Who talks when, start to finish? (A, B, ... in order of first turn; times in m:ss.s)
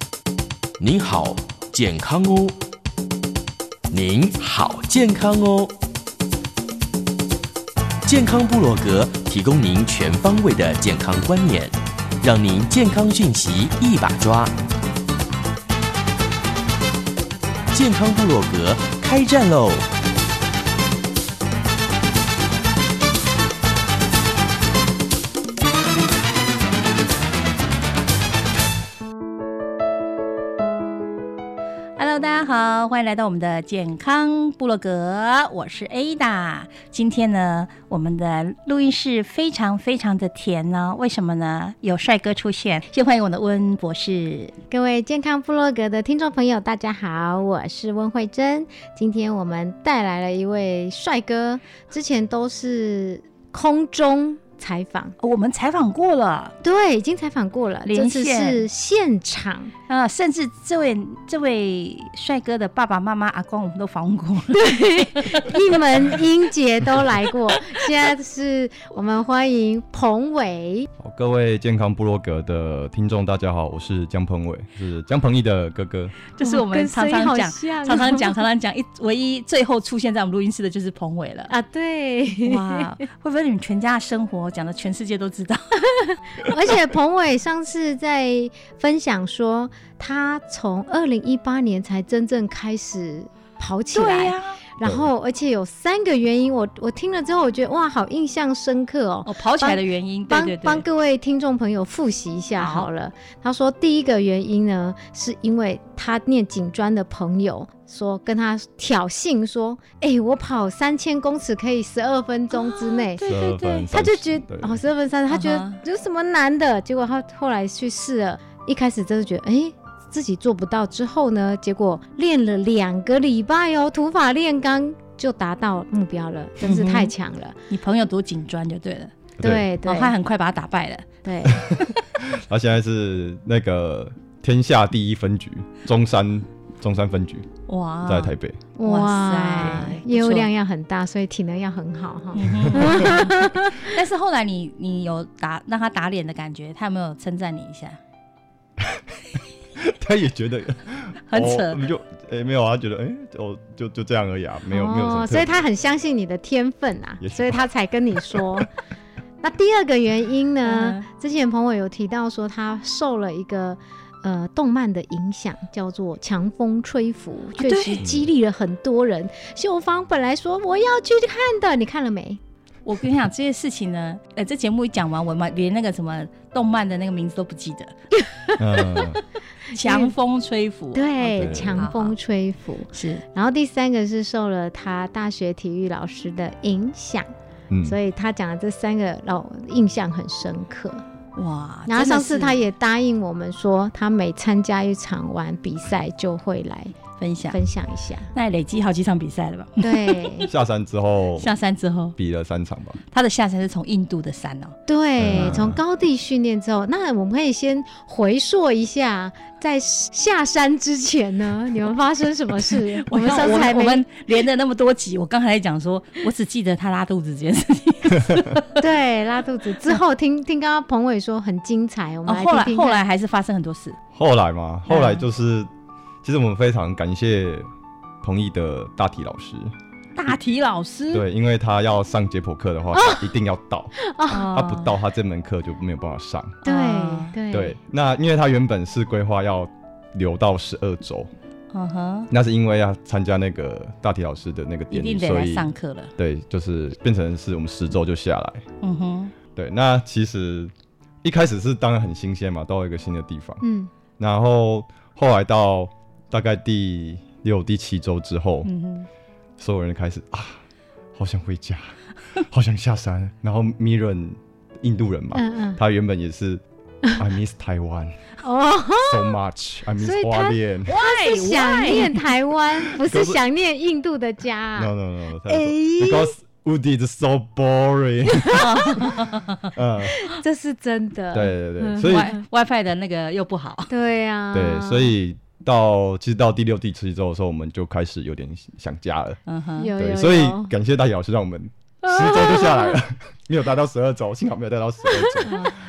0:00.8-0:02.6 A
0:03.9-0:05.7 A
0:08.0-0:14.5 A
0:17.7-0:19.9 A
0:32.0-0:44.5 B
0:44.7-0:55.1 C
0:55.2-0:56.6 B
0:56.6-0:59.7 C
0:57.8-0:58.6 B
0:59.9-1:04.7 B
1:04.5-1:10.9 C
1:05.2-1:05.6 B
1:11.0-1:16.1 D
1:16.3-1:21.5 B
1:16.4-1:18.4 C
1:21.5-1:22.9 C
1:22.4-1:25.8 B
1:25.9-1:53.3 C
1:33.9-1:34.6 B
1:39.2-1:40.8 B
1:42.6-1:42.9 B
1:52.6-1:53.9 B
1:53.2-1:54.8 D
1:53.9-2:07.6 C
1:55.3-1:55.8 B
2:06.6-2:07.1 B
2:07.7-2:09.3 B
2:09.4-2:09.7 D
2:09.4-2:10.1 C
2:09.8-2:12.0 B
2:11.2-2:11.6 C
2:11.6-2:17.5 D
2:17.7-2:20.5 B
2:18.0-2:18.6 D
2:18.8-2:24.0 C
2:22.3-2:28.0 B
2:22.6-2:22.9 D
2:28.8-2:29.0 D
2:29.8-2:35.6 D
2:31.3-2:31.8 B
2:34.7-2:38.7 C
2:37.2-2:37.6 D
2:38.2-2:38.6 D
2:39.4-2:52.4 C
2:40.6-2:41.0 B
2:47.6-2:48.0 B
2:48.0-2:48.3 D
2:52.8-2:57.9 B
2:58.6-2:59.2 D
2:59.7-3:00.1 C
2:59.7-3:02.2 B
3:00.9-3:07.3 C
3:01.4-3:01.8 D
3:02.9-3:03.2 B
3:07.7-3:08.0 D
3:07.8-3:11.0 C
3:11.4-3:12.6 B
3:11.9-3:16.9 C
3:17.2-3:17.6 B
3:17.5-3:18.3 C
3:18.3-3:20.5 B
3:19.8-3:20.5 C
3:20.5-3:21.5 D
3:21.4-3:22.2 B
3:22.2-3:23.0 D
3:23.1-3:24.8 B
3:24.9-3:34.0 C
3:25.2-3:25.8 D
3:25.3-3:25.6 B
3:32.7-3:38.8 B
3:38.1-3:38.4 D
3:38.7-3:43.0 C
3:42.3-3:44.0 B
3:44.1-3:45.7 D
3:44.9-3:45.2 B
3:46.2-3:47.7 D
3:48.2-3:49.7 D
3:50.2-3:51.2 B
3:51.1-3:53.9 D
3:53.0-3:53.2 C
3:54.0-3:54.5 C
3:54.3-3:54.9 B
3:54.5-3:56.6 D
3:56.6-3:57.4 B
3:56.6-3:57.8 C
3:57.5-4:01.3 D
4:01.7-4:02.3 B
4:02.3-4:08.6 D
4:04.9-4:06.1 B
4:08.8-4:09.3 B
4:09.5-4:13.6 D
4:13.6-4:13.9 C
4:14.2-4:18.7 D
4:18.6-4:19.1 B
4:19.6-4:20.6 D
4:21.1-4:26.6 D
4:25.3-4:25.8 C
4:27.2-4:28.2 D
4:28.4-4:29.3 C
4:29.1-4:31.0 D
4:30.0-4:34.9 C
4:30.9-4:32.3 B
4:33.0-4:33.4 D
4:34.8-4:38.6 D
4:35.5-4:36.3 C
4:38.3-4:39.2 C
4:38.5-4:39.6 B
4:39.7-4:40.2 D
4:40.0-4:42.3 C
4:41.3-4:42.3 D
4:42.0-4:43.9 B
4:43.9-4:45.1 C
4:44.5-4:49.4 D
4:49.5-4:49.9 B
4:49.8-4:50.7 C
4:50.0-4:55.6 D
4:52.0-4:53.0 C
4:55.1-4:55.7 C